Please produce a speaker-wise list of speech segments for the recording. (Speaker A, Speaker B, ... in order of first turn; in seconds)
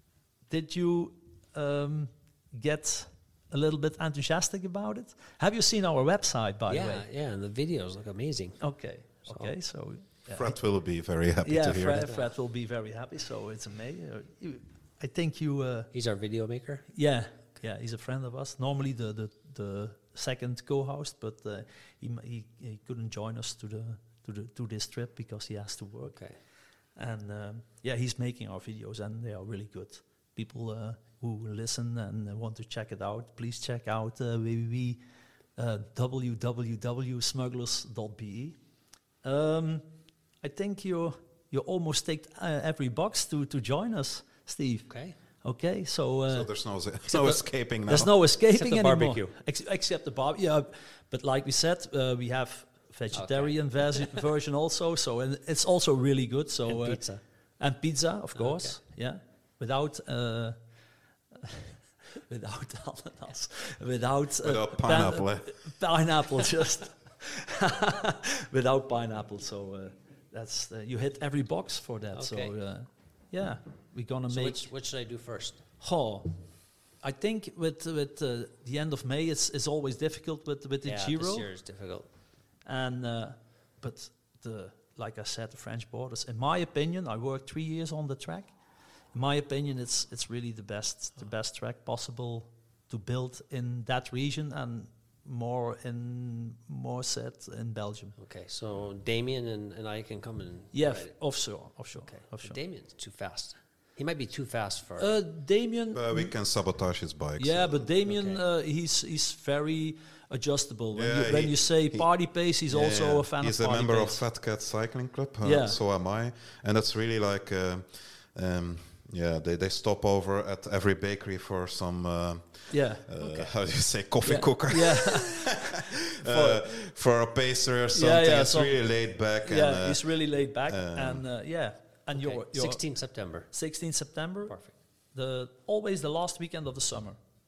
Speaker A: 0.5-7.0, 8.6-10.6, 11.4-15.9, 16.9-26.2, 27.0-35.0, 35.6-38.6, 39.2-39.9, 40.4-44.9, 45.4-46.5, 47.1-57.0, 57.6-60.6, 61.4-74.6, 75.8-76.4, 77.0-81.5, 82.7-88.5, 89.1-98.2, 100.7-102.6, 105.0-106.3, 107.4-114.2, 115.4-115.8, 122.7-123.1, 124.6-126.7, 127.9-128.8, 129.4-132.8, 133.5-134.6, 135.2-137.2
Speaker B: 6.7-8.6, 9.3-9.5, 15.9-16.9, 26.1-26.4, 44.9-45.2, 48.5-49.3, 53.1-54.2, 56.7-57.2, 58.4-58.8, 72.1-72.5, 74.3-75.6, 80.8-82.1, 98.2-101.1, 102.0-105.1, 108.1-108.4, 123.2-123.5, 132.1-133.5, 134.5-134.8
Speaker C: 10.3-12.1, 46.3-48.1, 64.4-65.5, 105.9-107.9, 110.9-112.1, 112.7-131.2